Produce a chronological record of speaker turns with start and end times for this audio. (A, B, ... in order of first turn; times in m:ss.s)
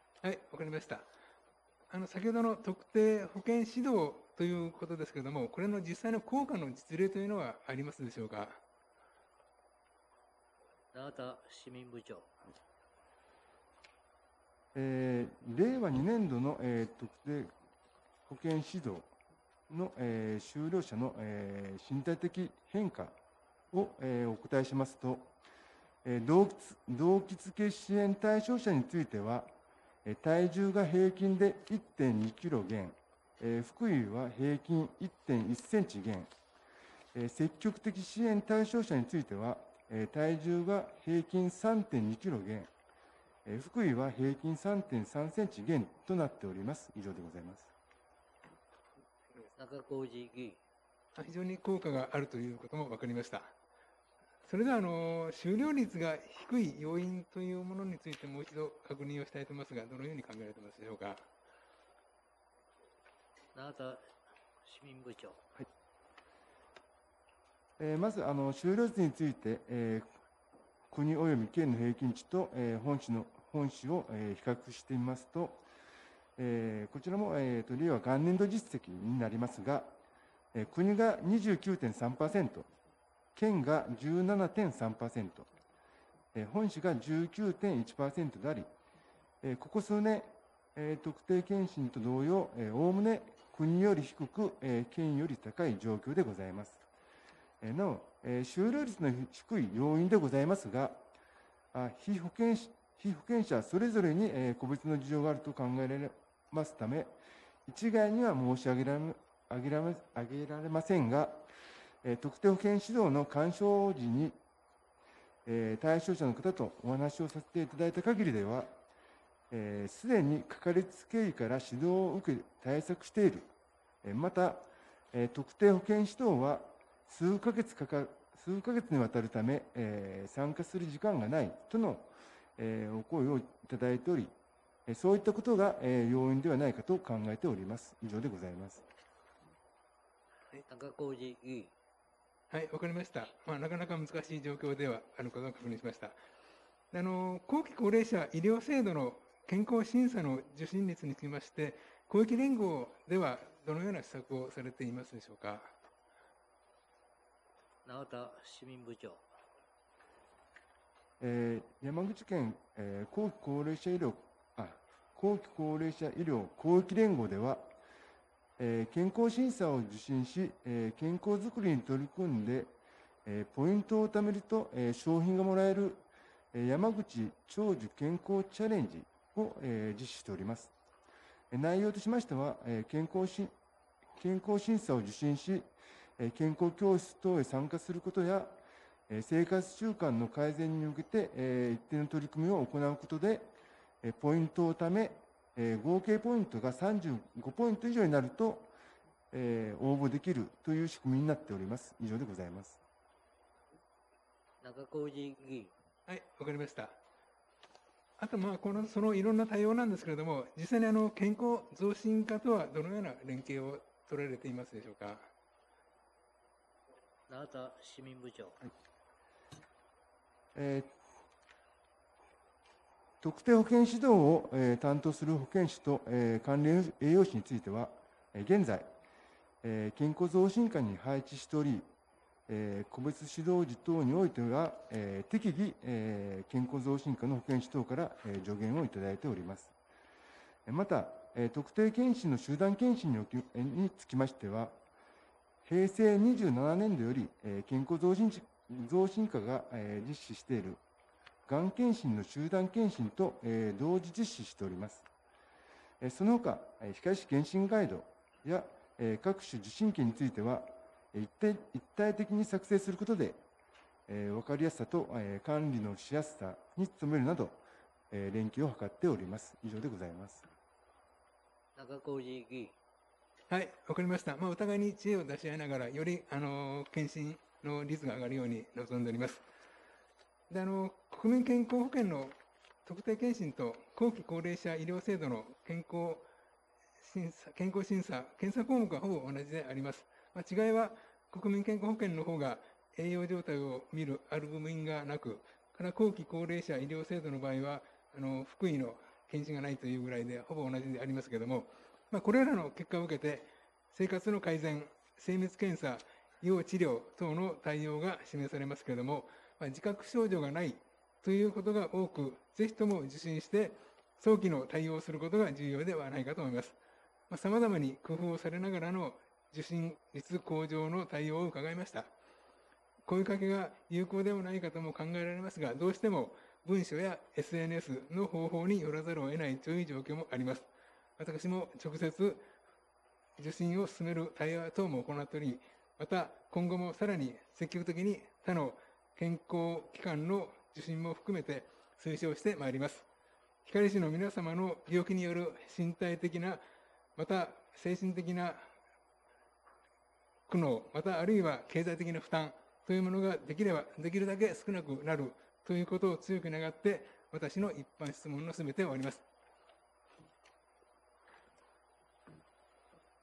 0:00.2-0:01.1 A
0:01.9-0:08.6 A
0:10.9-0:12.3 B
0:14.7-0:17.5 C
0:18.3-0:19.1 C
0:19.7-0:23.2 C
0:23.7-0:25.3 C
0:26.0-0:29.5 C
0:30.0-0:36.3 C
0:37.1-0:42.7 C
0:43.4-0:47.7 C
0:49.6-0:50.6 B
0:51.1-0:53.5 A
0:54.4-1:01.2 A
1:03.5-1:04.1 B
1:04.6-1:05.4 B
1:07.8-1:10.1 C
1:10.9-1:15.6 C
1:16.4-1:19.9 C
1:20.5-1:22.7 C
1:23.3-1:25.5 C
1:26.3-1:28.7 C
1:29.4-1:36.8 C
1:37.6-1:41.0 C
1:41.7-1:47.1 C
1:47.7-1:51.4 C
1:52.0-1:54.4 C
1:55.4-1:58.7 C
1:59.5-2:03.5 C
2:04.0-2:14.3 C
2:14.9-2:18.8 C
2:20.7-2:21.7 B
2:22.5-2:26.2 A
2:26.9-2:35.7 A
2:37.8-2:39.2 B
2:41.2-2:47.7 C
2:48.6-2:52.7 C
2:53.2-3:00.7 C
3:01.5-3:03.5 C
3:04.2-3:05.7 C
3:06.2-3:08.6 C
3:09.1-3:13.5 C
3:14.0-3:18.7 C
3:19.3-3:22.8 C
3:24.6-3:25.7 B
3:26.1-3:27.0 A
3:28.2-3:35.3 A
3:37.3-3:38.7 B
3:40.5-3:40.9 C
3:43.2-3:48.9 C
3:49.6-3:51.8 C
3:52.5-3:59.7 C
4:00.6-4:04.8 C
4:05.6-4:10.8 C
4:11.4-4:15.0 C
4:16.0-4:23.4 C
4:24.1-4:30.4 C
4:31.8-4:32.7 B
4:33.5-4:39.4 A
4:40.5-4:42.3 A
4:42.8-4:46.3 A
4:47.0-5:16.8 A
5:17.3-5:22.1 A
5:23.0-5:32.5 A
5:33.4-5:43.1 A
5:43.6-5:46.6 A
5:47.2-5:48.7 A
5:50.5-5:59.2 A